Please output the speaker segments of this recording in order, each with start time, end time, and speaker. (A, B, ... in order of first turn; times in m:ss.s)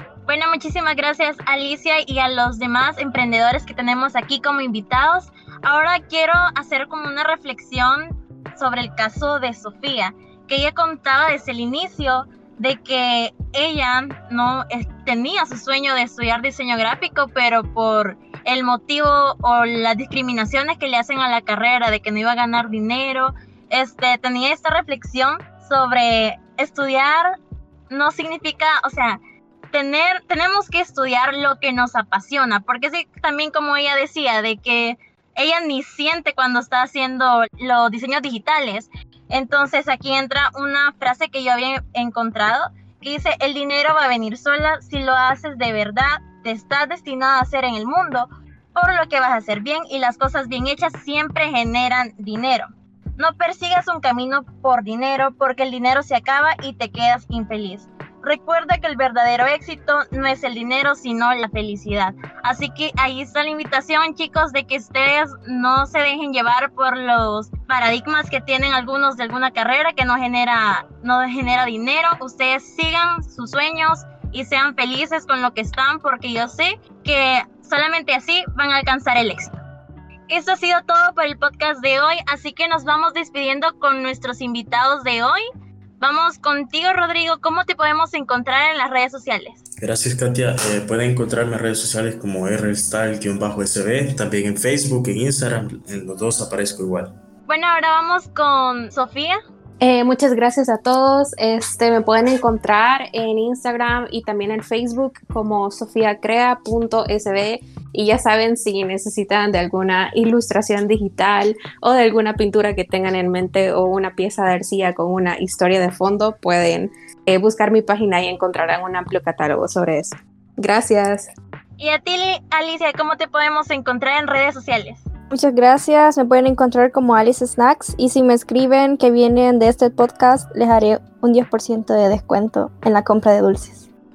0:00.2-0:27.3 A
0:27.9-0:29.2 A
0:29.7-1:19.6 A
1:20.3-1:25.4 A
1:26.0-1:29.6 A
1:29.8-1:37.1 B
1:37.5-1:39.3 A
1:39.8-2:01.3 C
2:01.8-2:05.0 A
2:05.3-2:13.8 D